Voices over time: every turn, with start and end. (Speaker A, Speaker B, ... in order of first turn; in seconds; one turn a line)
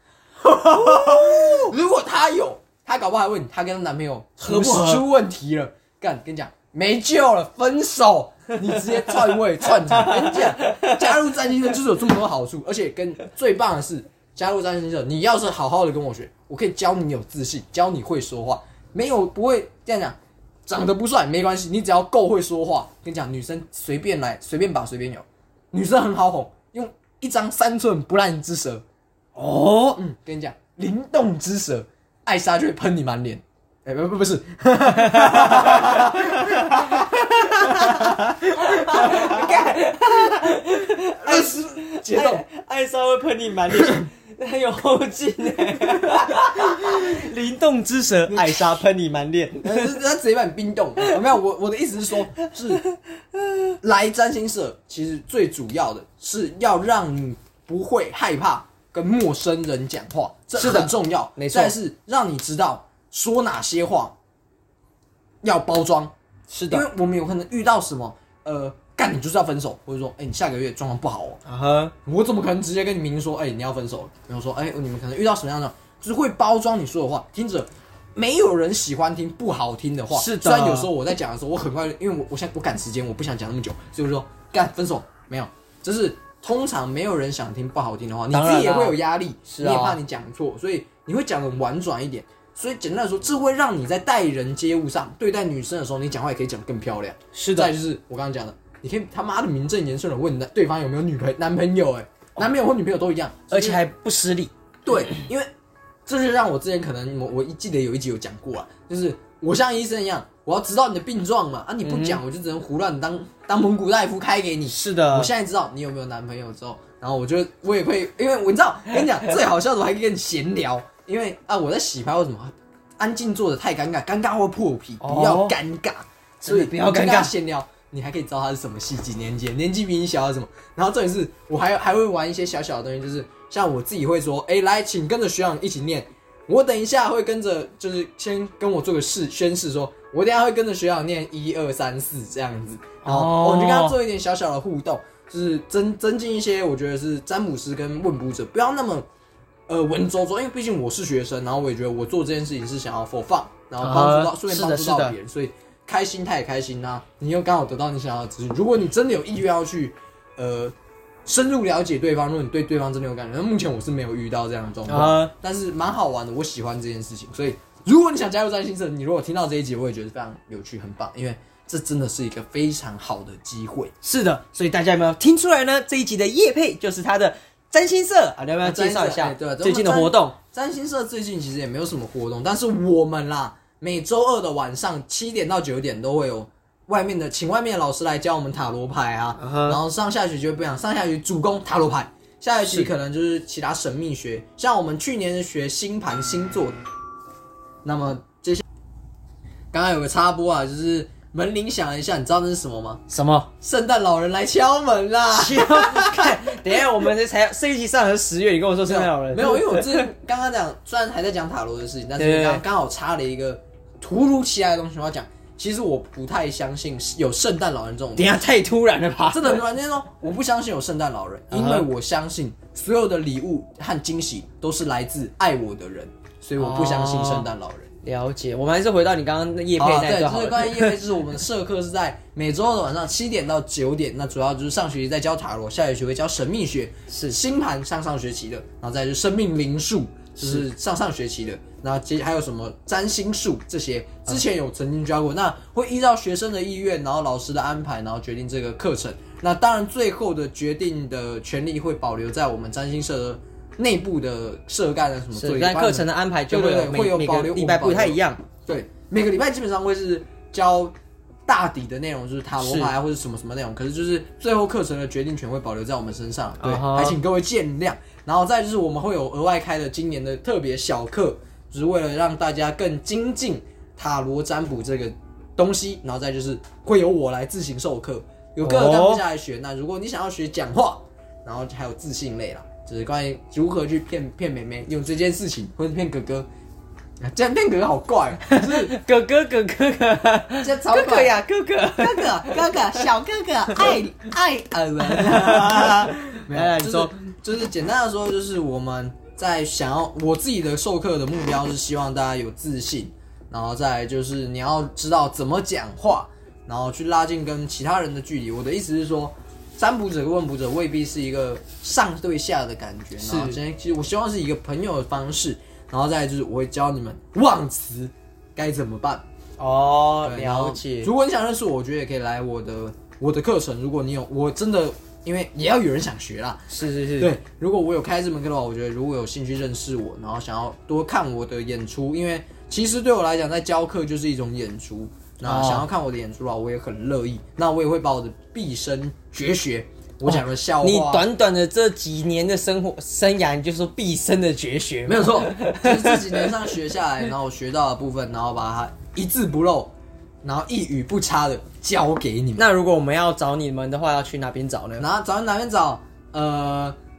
Speaker A: 0.4-28.8
Speaker B: 0.7-1.7
Speaker B: 4.4-5.0
Speaker B: 10.1-11.0
Speaker B: 29.3-30.0
Speaker A: 29.9-40.6
Speaker B: 35.0-49.9
Speaker A: 41.2-42.4
Speaker A: 46.2-47.1
Speaker A: 48.3-48.8
Speaker A: 49.6-52.8
Speaker A: 53.8-64.2
Speaker B: 60.5-61.7
Speaker A: 65.4-66.1
Speaker B: 66.5-66.9
Speaker A: 66.7-71.4
Speaker B: 71.4-71.9
Speaker A: 72.0-103.8
Speaker B: 80.1-80.9
Speaker B: 88.3-90.0
Speaker B: 97.3-97.7
Speaker B: 103.5-104.5
Speaker A: 104.8-105.5
Speaker A: 106.0-149.1
Speaker B: 111.8-112.2
Speaker B: 114.7-115.3
Speaker B: 125.0-125.6
Speaker B: 126.4-127.3
Speaker B: 143.0-144.0
Speaker A: 149.7-160.7
Speaker B: 153.8-155.1
Speaker A: 161.2-173.9
Speaker B: 164.9-165.3
Speaker B: 174.0-180.3
Speaker A: 178.6-196.8
Speaker B: 189.4-189.8
Speaker A: 197.8-198.6
Speaker A: 199.7-203.0
Speaker B: 203.1-203.5
Speaker A: 203.6-206.8
Speaker B: 205.3-210.1
Speaker A: 208.8-218.3
Speaker B: 212.2-212.6
Speaker B: 218.2-219.6
Speaker A: 219.3-227.9
Speaker B: 221.5-221.9
Speaker B: 226.6-227.5
Speaker B: 228.0-231.0
Speaker A: 229.8-260.9
Speaker B: 237.1-237.4
Speaker B: 240.4-240.6
Speaker B: 255.3-258.4
Speaker A: 261.4-286.5
Speaker B: 262.6-262.9
Speaker B: 266.6-267.2
Speaker B: 278.6-279.2
Speaker A: 287.2-288.9
Speaker B: 288.4-293.1
Speaker A: 290.6-291.4
Speaker A: 292.0-319.2
Speaker B: 293.7-294.0
Speaker B: 295.0-297.2
Speaker B: 313.2-313.6
Speaker B: 319.6-321.1
Speaker A: 320.2-326.7
Speaker B: 326.7-327.3
Speaker A: 327.2-341.3
Speaker B: 335.4-335.9
Speaker B: 340.2-346.7
Speaker A: 345.1-352.6
Speaker B: 352.6-355.1
Speaker A: 355.0-357.0